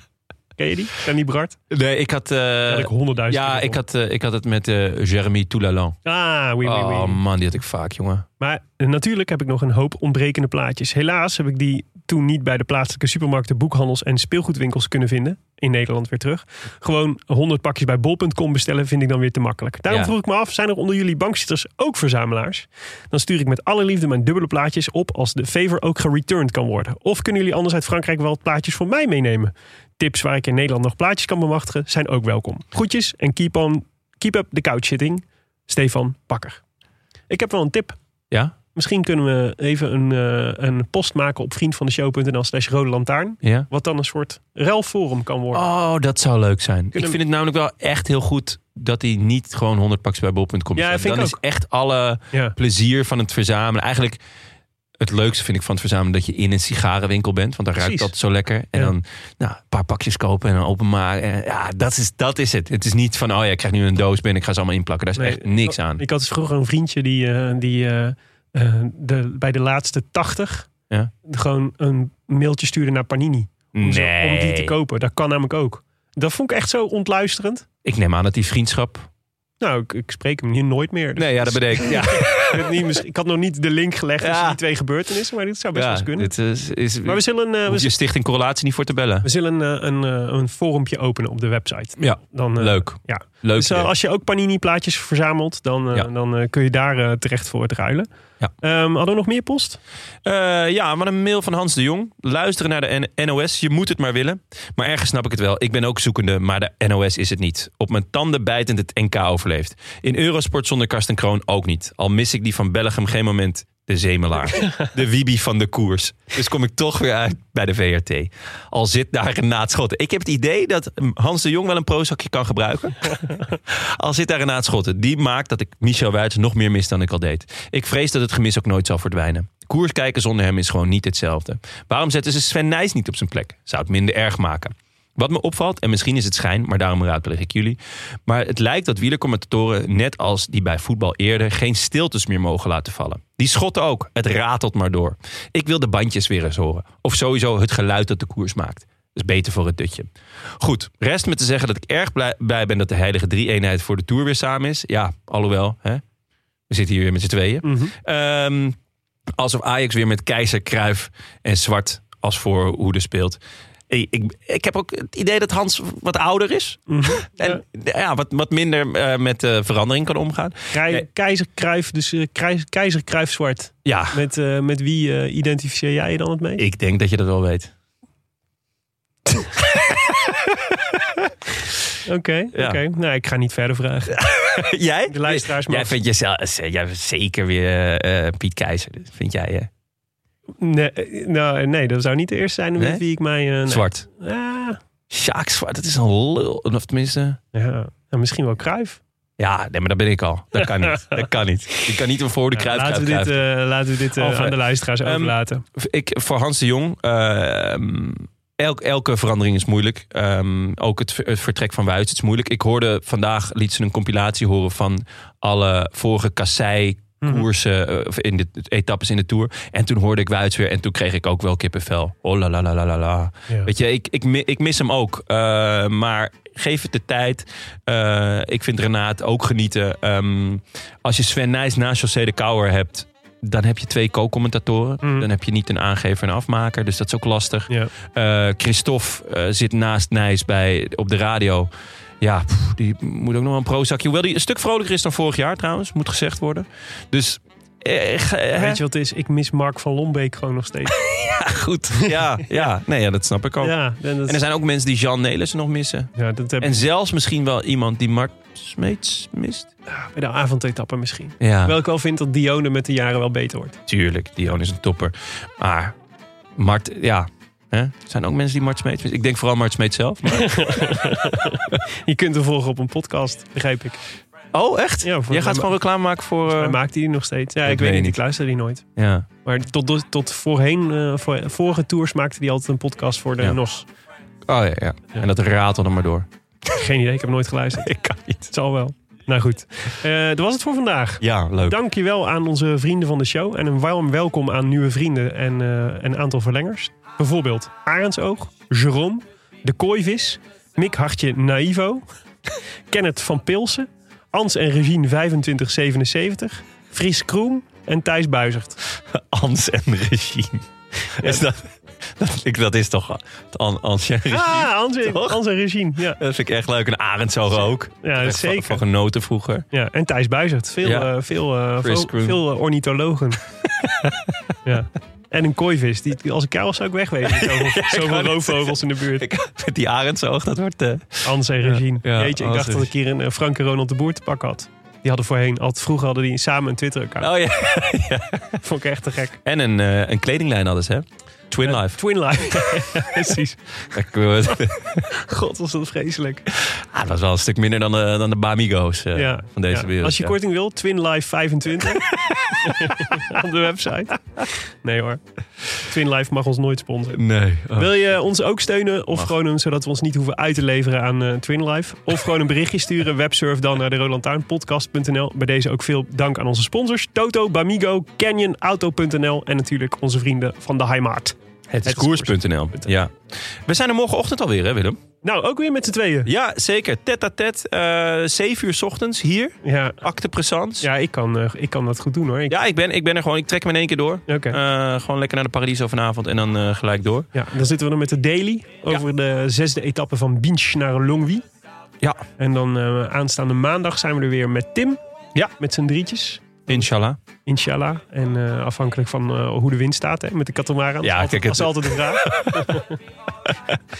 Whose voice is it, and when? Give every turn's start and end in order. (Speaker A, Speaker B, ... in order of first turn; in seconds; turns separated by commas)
Speaker A: 0.6-1.6, Speaker B: 1.7-6.0, Speaker A: 2.7-3.8, Speaker A: 6.0-7.2, Speaker B: 6.6-8.2, Speaker A: 8.4-36.6, Speaker A: 37.3-38.0, Speaker A: 38.7-45.6, Speaker B: 43.4-43.7, Speaker B: 45.5-54.2, Speaker A: 50.8-51.4, Speaker B: 55.0-66.0, Speaker A: 57.8-58.1, Speaker A: 65.2-70.7, Speaker A: 71.2-77.7, Speaker B: 73.7-74.8, Speaker B: 77.8-79.1, Speaker A: 79.6-86.3, Speaker B: 81.2-82.9, Speaker B: 84.2-84.6, Speaker B: 85.7-89.3, Speaker A: 87.0-87.9, Speaker A: 89.2-98.1, Speaker B: 92.0-93.9, Speaker A: 98.6-99.8, Speaker B: 100.2-156.0, Speaker B: 156.7-158.8, Speaker A: 157.6-157.9, Speaker B: 159.4-171.1, Speaker A: 166.9-167.6, Speaker A: 170.7-176.7, Speaker B: 173.8-174.2, Speaker B: 176.6-177.7, Speaker B: 179.5-181.3, Speaker A: 182.1-184.3, Speaker B: 182.5-182.8, Speaker B: 184.1-189.7, Speaker A: 185.1-185.9, Speaker A: 190.6-194.8, Speaker B: 192.8-193.0, Speaker B: 193.7-194.1, Speaker B: 195.1-197.4, Speaker A: 197.5-199.0, Speaker B: 199.4-203.4, Speaker A: 200.9-201.2, Speaker A: 202.6-205.7, Speaker B: 204.2-241.7, Speaker A: 235.0-235.3, Speaker B: 242.2-248.8, Speaker A: 248.6-251.0, Speaker B: 250.9-259.7, Speaker A: 252.0-252.6, Speaker A: 253.6-254.4, Speaker A: 256.2-256.8, Speaker A: 259.9-263.8, Speaker B: 261.4-261.8, Speaker B: 263.9-266.0, Speaker B: 266.6-270.9, Speaker A: 270.3-274.0, Speaker B: 274.5-276.8, Speaker A: 275.0-275.7, Speaker A: 276.5-278.9, Speaker B: 277.6-278.2, Speaker B: 279.0-279.3, Speaker A: 279.4-283.9, Speaker B: 284.5-286.3, Speaker A: 286.7-288.0, Speaker B: 287.7-288.5, Speaker A: 288.5-302.1, Speaker B: 291.2-291.8, Speaker A: 302.9-308.8, Speaker B: 308.9-315.4, Speaker A: 311.2-311.4, Speaker A: 314.3-316.2, Speaker B: 316.2-319.7, Speaker A: 318.0-318.8, Speaker A: 319.7-323.4, Speaker B: 320.8-321.1, Speaker B: 321.8-322.4, Speaker B: 323.6-324.5, Speaker A: 324.6-329.3, Speaker B: 327.2-332.9, Speaker A: 331.2-337.3, Speaker B: 337.2-338.6, Speaker A: 338.6-339.4, Speaker B: 339.4-342.9, Speaker A: 341.6-343.9, Speaker B: 343.9-345.1, Speaker A: 345.1-346.5, Speaker B: 346.5-350.4, Speaker A: 349.1-357.2, Speaker B: 351.9-353.2, Speaker B: 357.1-357.9, Speaker A: 357.7-372.9, Speaker B: 371.7-375.0, Speaker A: 375.2-376.3, Speaker B: 376.3-380.9, Speaker A: 379.6-380.0, Speaker A: 380.8-382.5, Speaker B: 382.5-387.3, Speaker A: 384.3-384.6, Speaker A: 387.3-391.4, Speaker A: 392.4-395.0, Speaker A: 395.6-396.9, Speaker B: 396.7-397.2, Speaker A: 397.4-403.0, Speaker B: 401.0-402.8, Speaker B: 403.4-403.8